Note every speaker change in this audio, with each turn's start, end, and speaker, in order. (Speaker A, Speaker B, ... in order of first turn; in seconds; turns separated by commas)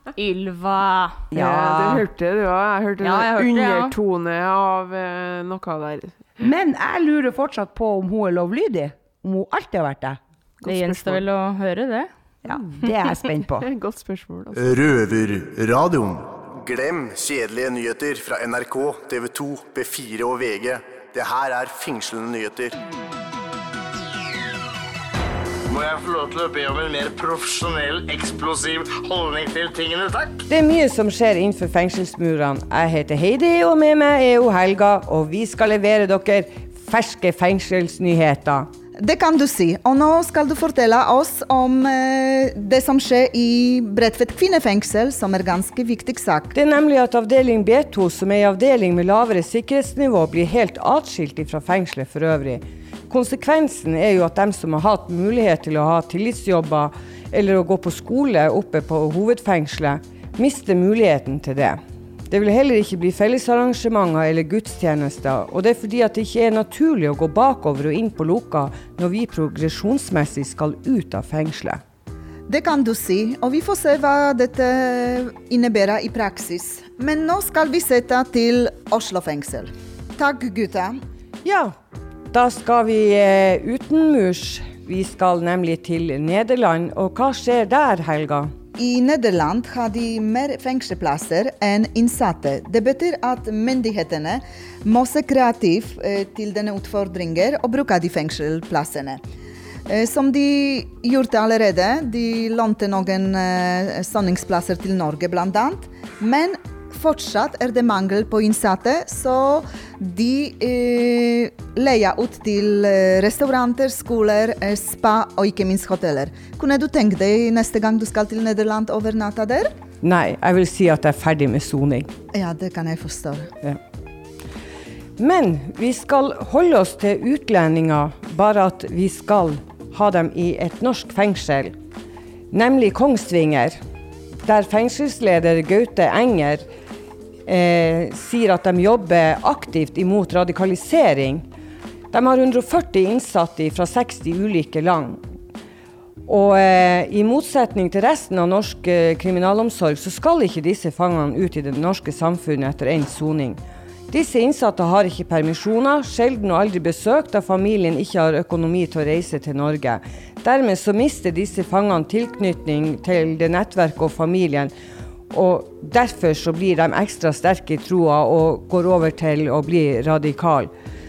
Speaker A: 0.2-1.3, Speaker B: 1.3-2.0, Speaker C: 1.3-6.2, Speaker A: 3.0-4.0, Speaker B: 6.4-10.2, Speaker A: 10.6-12.1, Speaker B: 12.4-13.7, Speaker C: 13.6-14.7, Speaker D: 14.5-22.8, Speaker E: 25.7-30.4, Speaker F: 30.5-38.7, Speaker G: 39.0-46.5, Speaker F: 46.5-71.8, Speaker G: 72.5-81.0, Speaker F: 81.4-81.7, Speaker F: 82.3-88.5, Speaker G: 88.8-99.2, Speaker G: 99.9-119.7, Speaker F: 120.0-122.1, Speaker G: 122.3-123.5, Speaker F: 125.2-131.8, Speaker F: 132.5-133.8, Speaker F: 134.4-136.7, Speaker F: 137.4-141.5, Speaker F: 142.1-145.2, Speaker F: 146.3-164.7, Speaker F: 165.3-170.7